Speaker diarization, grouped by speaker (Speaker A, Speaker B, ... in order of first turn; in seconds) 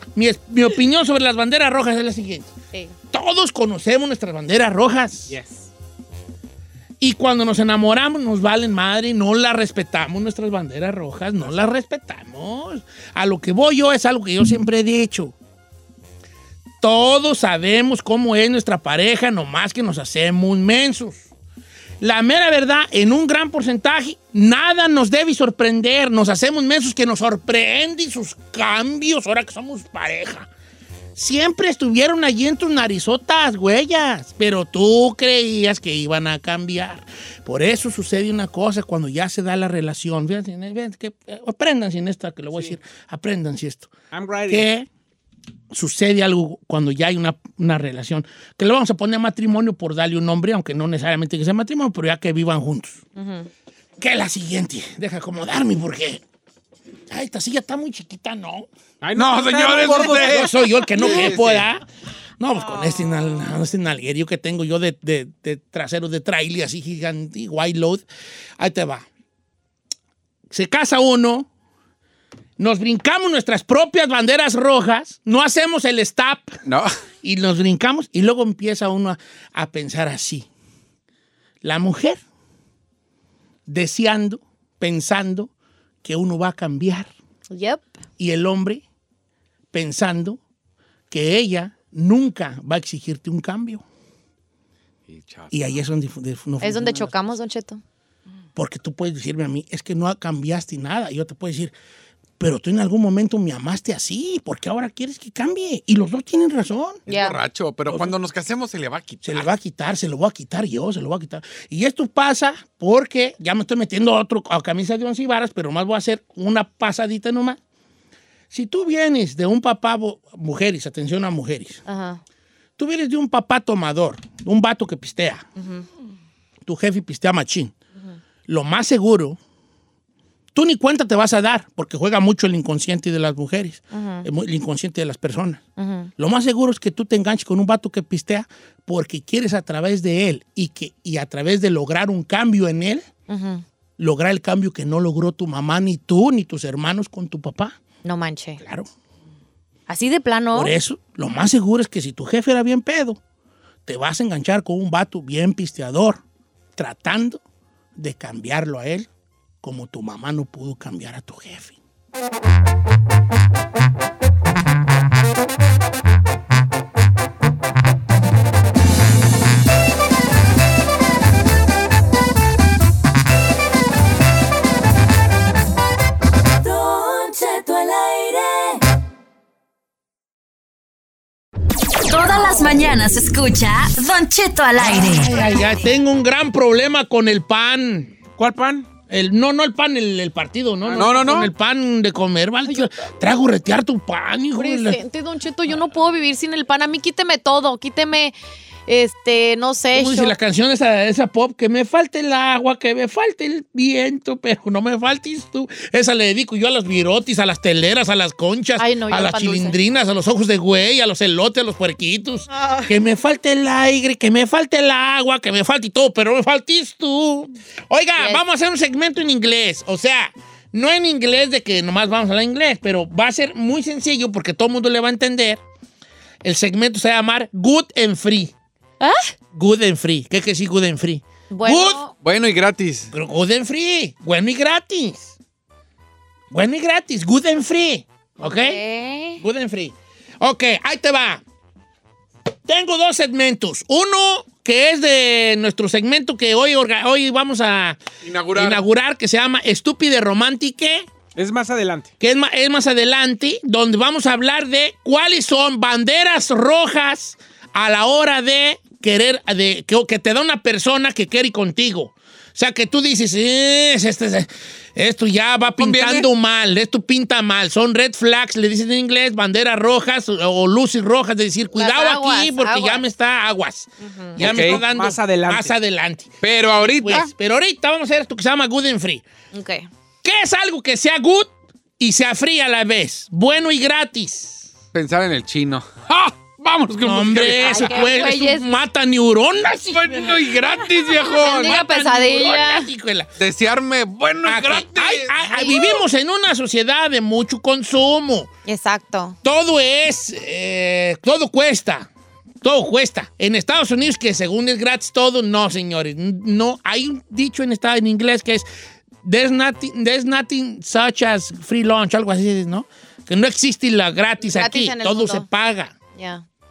Speaker A: 0.1-2.5, 3.1-5.3, 7.0-15.3, 16.8-21.2, 22.0-30.5, 31.1-43.9, 44.5-44.9, 45.7-53.0, 54.0-56.2, 57.1-58.7, 60.0-61.8, 62.4-68.0, 68.6-69.0, 70.5-71.5, 72.6-76.6, 77.2-80.5, 81.6-82.2, 83.7-85.5, 86.0-87.1, 88.2-88.8, 89.7-90.4, 91.1-93.8, 95.5-97.3, 98.5-101.7, 102.4-107.0, 107.9-108.1, 109.2-117.6, 118.5-121.8, 122.8-125.4, 126.6-127.7, 128.5-129.4, 130.5-135.6, 136.2-143.0, 144.0-147.8, 148.6-148.9, 150.5-153.2, 153.8-156.2, 156.8-157.4, 158.0-159.1, 159.6-161.8, 184.8-188.2, 189.1-195.0, 199.9-225.6, 226.4-228.5, 229.5-232.0, 233.1-235.3, 236.5-238.8, 239.4-241.4, 242.7-248.0, 248.5-251.1, 252.2-279.2, 280.2-284.7, 287.0-290.6, 291.5-293.3, 294.4-298.5, 299.4-302.1, 302.6-308.6, 309.2-315.9
Speaker B: 5.3-5.6, 44.1-44.6, 59.0-60.8, 188.4-188.9, 251.3-252.1, 274.4-275.7
Speaker C: 53.1-53.5, 87.5-87.9, 96.6-97.8, 107.1-107.4, 121.9-122.2, 125.6-125.8, 133.9-134.2, 135.8-136.1, 143.3-143.6, 148.0-148.6, 149.9-150.7, 194.6-198.3, 198.9-200.3, 208.8-209.8, 218.2-218.4, 229.0-229.3, 231.5-232.1, 238.4-239.4, 271.7-273.0, 274.0-274.4, 279.5-279.9, 287.6-288.7, 291.3-292.9, 295.5-296.0, 298.6-299.4, 314.4-315.5, 316.1-316.4
Speaker D: 59.1-61.7, 76.6-76.9, 95.1-95.8, 107.1-109.5, 190.9-191.5, 232.2-233.1, 248.2-248.8, 265.7-266.3, 274.4-274.8, 276.4-277.3, 284.9-288.1, 289.9-291.9, 293.4-295.3
Speaker E: 176.6-178.8
Speaker F: 182.1-185.4